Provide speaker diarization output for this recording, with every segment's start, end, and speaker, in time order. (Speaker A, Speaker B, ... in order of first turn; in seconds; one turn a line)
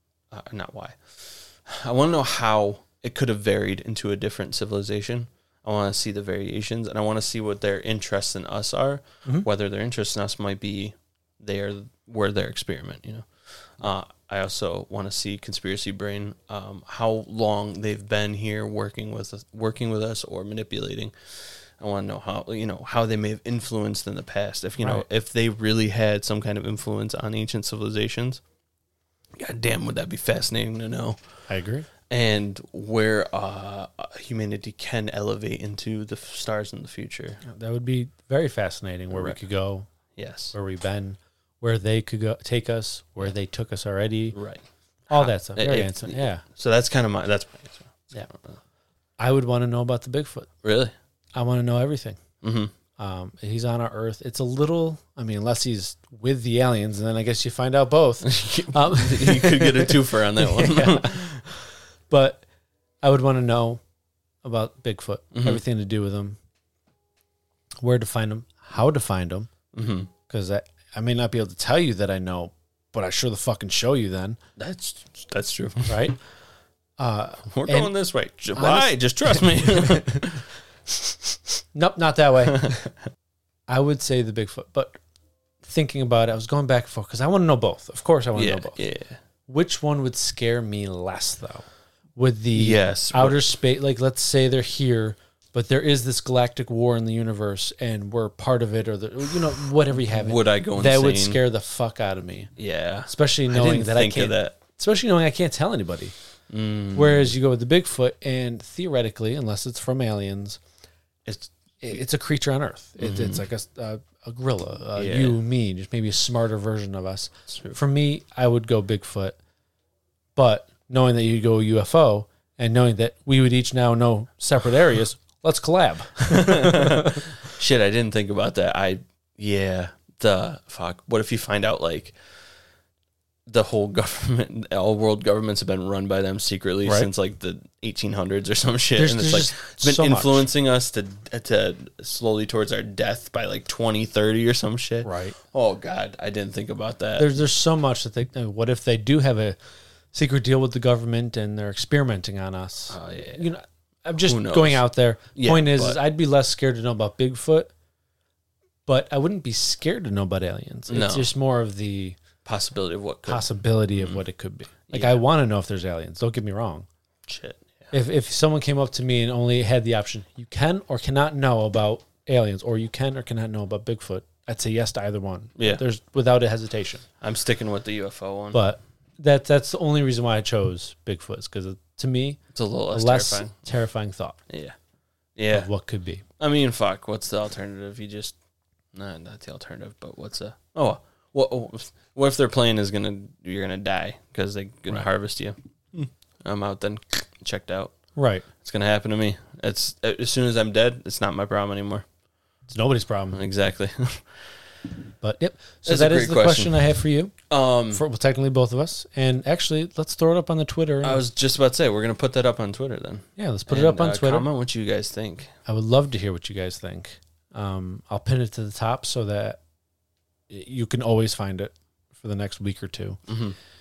Speaker A: 0.3-13.3
Speaker A: 13.8-28.4
Speaker A: 29.4-31.2
Speaker B: 31.5-31.9
Speaker A: 32.1-37.4
Speaker B: 37.4-39.9
Speaker A: 39.1-39.4
Speaker A: 40.1-40.5
Speaker B: 40.5-44.4
Speaker A: 44.3-48.6
Speaker B: 45.1-46.4
Speaker B: 49.2-50.5
Speaker A: 50.6-50.9
Speaker B: 51.3-52.2
Speaker A: 52.4-52.7
Speaker B: 53.0-62.4
Speaker A: 58.2-61.4
Speaker B: 63.0-63.8
Speaker B: 64.4-66.4
Speaker A: 65.3-65.6
Speaker B: 67.8-69.5
Speaker A: 69.7-70.1
Speaker B: 70.3-74.4
Speaker A: 74.6-76.1
Speaker B: 75.9-76.2
Speaker B: 77.0-78.0
Speaker A: 77.5-80.4
Speaker B: 78.5-80.2
Speaker B: 81.7-82.7
Speaker B: 83.7-85.0
Speaker B: 85.6-88.8
Speaker A: 88.3-89.2
Speaker B: 89.5-102.5
Speaker A: 92.5-93.4
Speaker A: 100.1-101.4
Speaker A: 102.6-104.5
Speaker B: 103.1-106.1
Speaker A: 106.5-107.3
Speaker B: 106.9-110.6
Speaker A: 111.2-111.5
Speaker B: 111.8-119.4
Speaker A: 113.0-113.4
Speaker A: 115.0-115.4
Speaker A: 117.5-117.8
Speaker B: 120.3-127.2
Speaker A: 126.2-132.1
Speaker A: 133.4-147.3
Speaker B: 139.0-140.5
Speaker B: 145.0-145.3
Speaker B: 147.2-149.6
Speaker B: 150.1-157.7
Speaker A: 152.9-153.5
Speaker A: 154.2-156.0
Speaker B: 158.8-162.2
Speaker A: 160.9-161.3
Speaker A: 162.4-164.2
Speaker B: 163.3-166.9
Speaker A: 164.9-165.2
Speaker A: 167.3-167.9
Speaker B: 167.9-177.0
Speaker A: 175.6-175.8
Speaker A: 177.2-178.6
Speaker B: 178.5-184.4
Speaker A: 182.5-183.5
Speaker A: 184.5-184.7
Speaker A: 185.3-185.7
Speaker B: 185.5-186.2
Speaker A: 186.4-188.3
Speaker A: 188.9-197.9
Speaker B: 198.1-198.4
Speaker A: 198.6-202.1
Speaker B: 202.7-203.4
Speaker A: 203.3-204.3
Speaker B: 205.2-207.3
Speaker A: 205.8-206.8
Speaker A: 207.5-208.0
Speaker B: 207.9-211.2
Speaker A: 211.0-215.5
Speaker B: 213.3-214.4
Speaker B: 215.7-219.6
Speaker B: 220.5-223.2
Speaker A: 223.3-223.6